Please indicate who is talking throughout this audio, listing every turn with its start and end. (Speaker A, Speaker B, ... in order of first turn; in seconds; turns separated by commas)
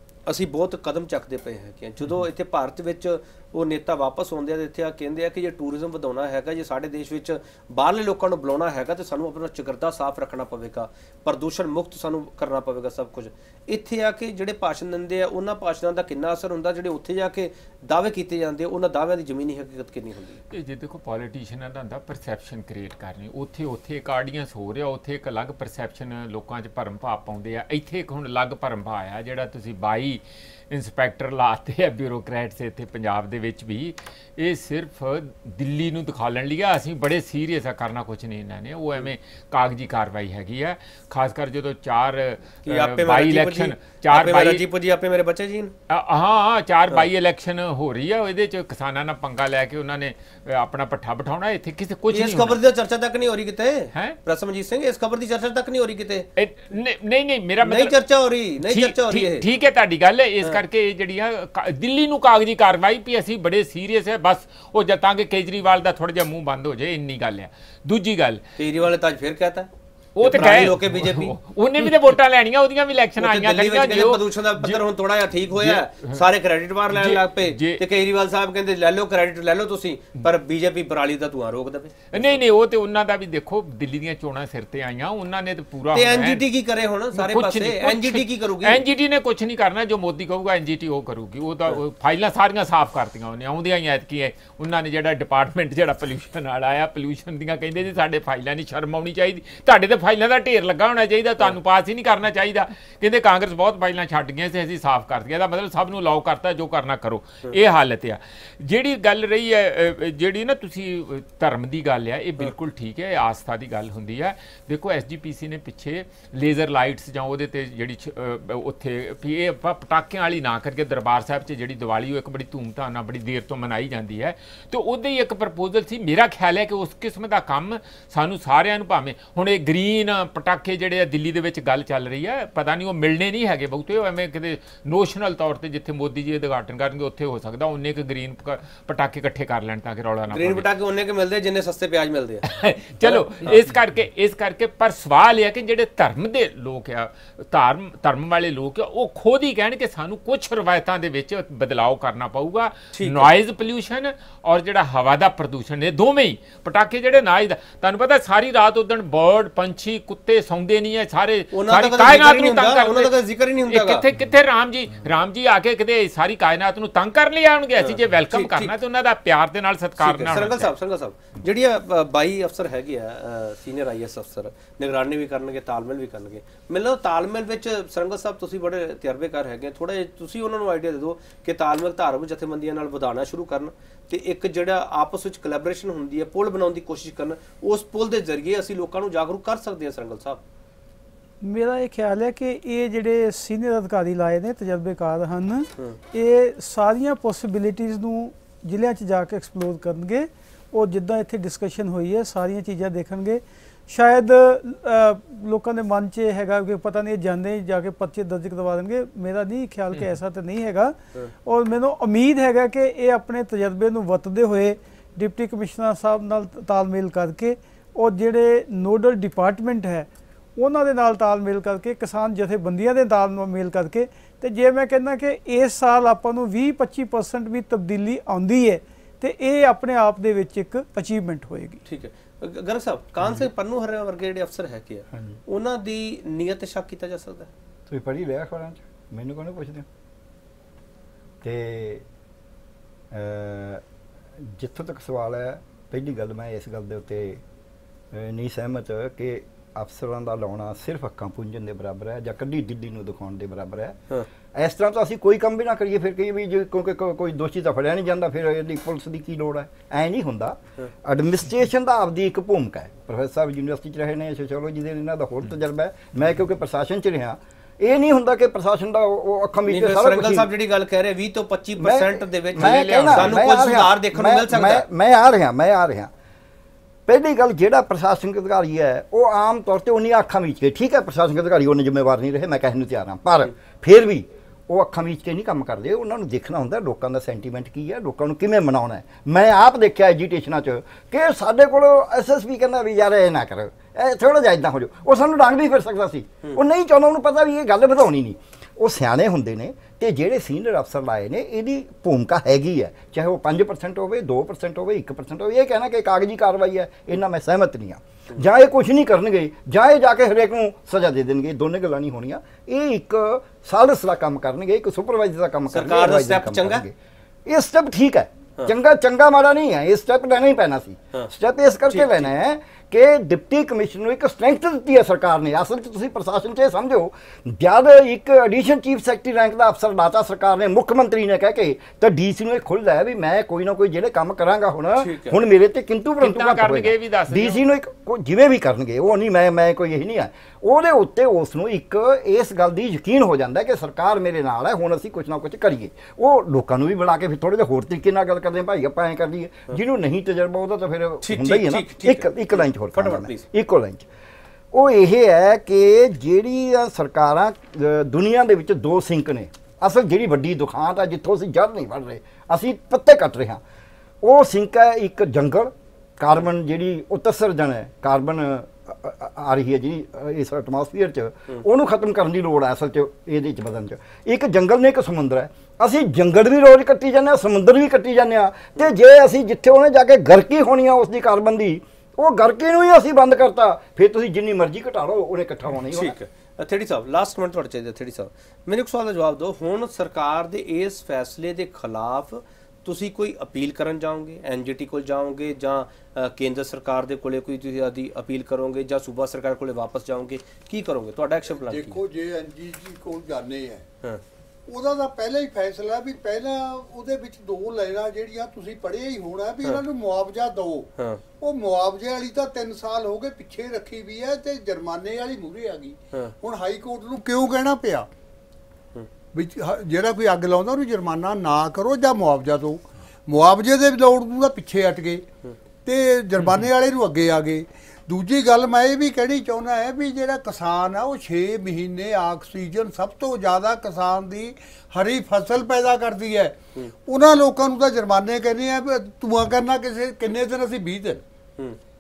Speaker A: 0.3-20.4, Speaker B: 20.5-44.6, Speaker A: 42.6-45.7, Speaker B: 45.9-52.6, Speaker A: 52.1-56.3, Speaker B: 56.4-58.0, Speaker A: 57.6-59.5, Speaker B: 58.6-68.4, Speaker A: 68.6-69.7, Speaker B: 70.2-74.8, Speaker A: 70.2-71.9, Speaker A: 73.2-82.4, Speaker B: 75.5-76.2, Speaker B: 76.9-77.8, Speaker B: 82.1-86.5, Speaker A: 85.9-88.8, Speaker B: 87.1-140.7, Speaker A: 140.3-142.4, Speaker B: 142.4-163.2, Speaker A: 143.0-143.6, Speaker A: 152.9-153.3, Speaker A: 161.5-164.1, Speaker B: 163.7-170.7, Speaker A: 167.8-168.8, Speaker A: 170.0-190.4, Speaker C: 191.4-231.8, Speaker A: 231.9-237.5, Speaker D: 235.1-235.4, Speaker D: 237.9-239.8, Speaker D: 241.4-242.1, Speaker D: 243.1-243.8, Speaker D: 244.4-247.4, Speaker D: 248.1-254.0, Speaker D: 254.5-270.5, Speaker A: 269.7-274.9, Speaker D: 271.8-276.1, Speaker B: 272.6-273.4, Speaker D: 277.1-316.9, Speaker A: 315.7-316.8, Speaker D: 317.5-354.1, Speaker A: 321.9-322.3, Speaker A: 335.0-335.4, Speaker B: 336.2-337.6, Speaker A: 351.2-353.5, Speaker D: 354.7-363.6, Speaker D: 364.2-386.2, Speaker A: 385.9-402.0, Speaker E: 401.6-403.9, Speaker E: 404.7-410.9, Speaker E: 411.4-418.1, Speaker E: 419.3-425.2, Speaker E: 425.9-441.2